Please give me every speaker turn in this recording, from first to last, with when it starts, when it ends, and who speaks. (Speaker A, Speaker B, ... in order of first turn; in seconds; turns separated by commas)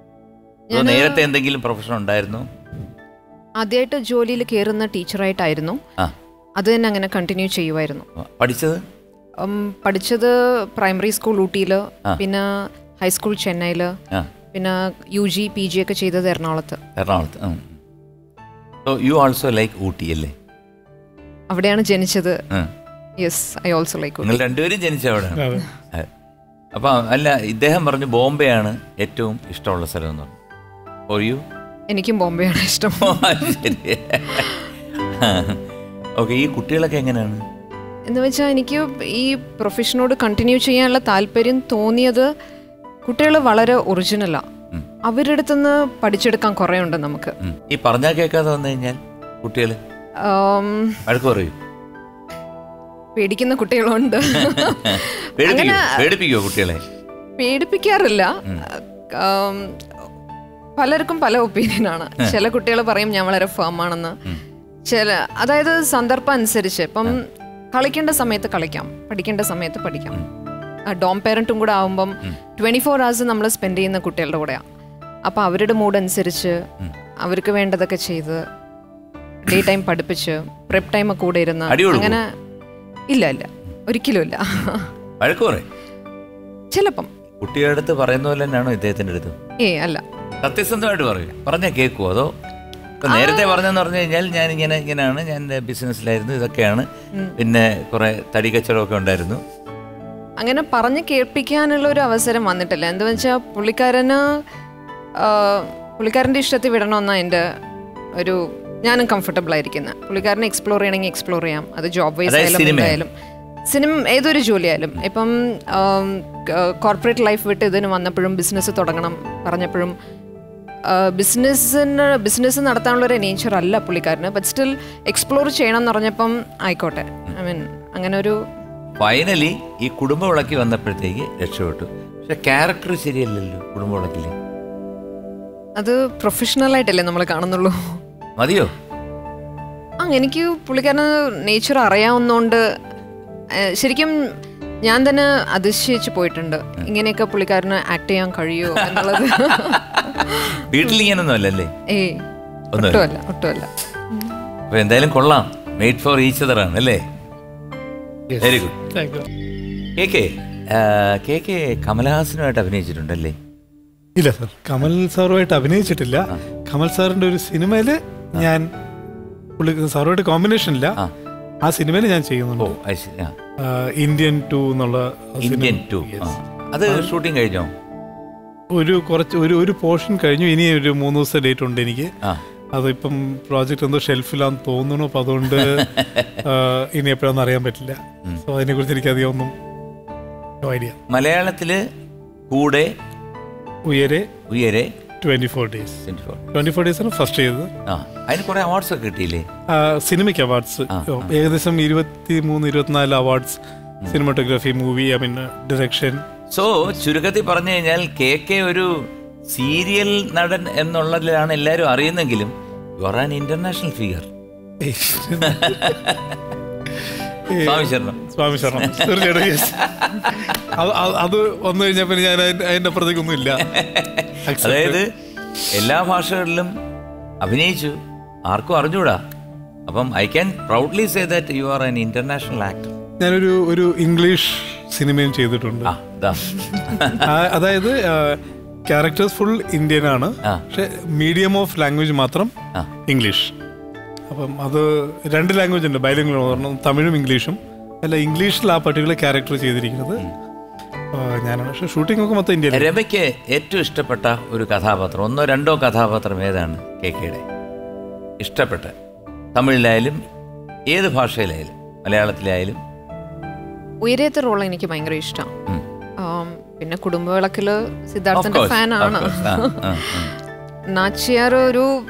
Speaker A: 0.7-1.3, Speaker B: 0.7-2.5, Speaker A: 3.6-5.8, Speaker A: 6.6-8.1, Speaker B: 8.2-8.8, Speaker A: 9.4-13.9, Speaker A: 14.5-16.8, Speaker B: 17.0-17.8, Speaker B: 18.9-20.3, Speaker A: 21.5-22.4, Speaker A: 23.2-24.4, Speaker B: 24.2-26.1, Speaker C: 25.4-25.7, Speaker B: 26.7-30.4, Speaker B: 31.1-31.4, Speaker A: 31.9-33.8, Speaker B: 33.0-35.6, Speaker B: 36.2-37.4, Speaker A: 38.1-42.3, Speaker A: 43.1-44.4, Speaker A: 45.1-47.4, Speaker B: 47.4-49.8, Speaker A: 50.2-51.0, Speaker B: 51.1-51.5, Speaker A: 53.2-56.1, Speaker B: 54.5-56.8, Speaker A: 57.4-59.8, Speaker A: 60.8-64.2, Speaker A: 64.9-70.2, Speaker A: 70.9-74.6, Speaker A: 75.3-76.6, Speaker A: 77.2-78.4, Speaker A: 79.5-82.2, Speaker B: 81.7-82.2, Speaker A: 83.1-84.9, Speaker B: 85.2-85.7, Speaker A: 86.7-87.1, Speaker B: 87.4-89.3, Speaker A: 89.6-90.0, Speaker B: 90.4-92.3, Speaker B: 93.0-96.9, Speaker A: 93.0-93.6, Speaker B: 97.4-99.4, Speaker A: 100.4-104.3, Speaker A: 105.2-107.4, Speaker A: 108.2-113.1, Speaker B: 112.3-113.0, Speaker A: 113.7-119.9, Speaker A: 120.9-128.4, Speaker B: 129.0-134.3, Speaker A: 135.8-137.8, Speaker B: 138.4-138.7, Speaker A: 140.0-142.6, Speaker A: 143.7-144.1, Speaker A: 144.9-150.4, Speaker B: 148.8-151.7, Speaker A: 151.9-152.2, Speaker B: 152.7-153.1, Speaker A: 152.8-154.3, Speaker B: 154.7-157.0, Speaker C: 158.3-159.3, Speaker B: 158.4-158.8, Speaker B: 160.0-163.4, Speaker C: 164.2-168.7, Speaker C: 169.6-171.0, Speaker C: 171.6-172.7, Speaker B: 172.6-173.3, Speaker C: 173.6-176.3, Speaker B: 175.4-177.7, Speaker C: 176.9-177.1, Speaker C: 178.7-182.1, Speaker C: 182.7-189.5, Speaker B: 185.5-186.4, Speaker C: 190.6-191.0, Speaker B: 191.1-191.8, Speaker B: 192.5-192.9, Speaker C: 193.9-194.3, Speaker B: 194.5-194.9, Speaker C: 195.2-197.7, Speaker B: 196.1-196.4, Speaker B: 197.9-199.4, Speaker C: 199.7-206.2, Speaker B: 200.9-201.3, Speaker B: 206.5-214.3, Speaker C: 214.8-216.0, Speaker B: 215.4-216.4, Speaker C: 217.5-220.1, Speaker B: 217.5-220.7, Speaker C: 220.7-223.7, Speaker B: 223.6-225.1, Speaker C: 224.5-225.0, Speaker B: 225.7-226.7, Speaker B: 227.4-228.0, Speaker B: 228.5-229.2, Speaker B: 229.9-232.9, Speaker C: 233.2-235.9, Speaker B: 235.9-237.3, Speaker C: 237.2-242.5, Speaker C: 243.1-243.5, Speaker C: 244.3-250.2, Speaker C: 251.1-252.9, Speaker B: 252.7-257.4, Speaker B: 258.4-258.9, Speaker B: 259.6-260.2, Speaker B: 260.9-262.8, Speaker A: 264.1-265.5, Speaker A: 266.2-270.2, Speaker B: 268.3-270.3, Speaker A: 270.9-271.9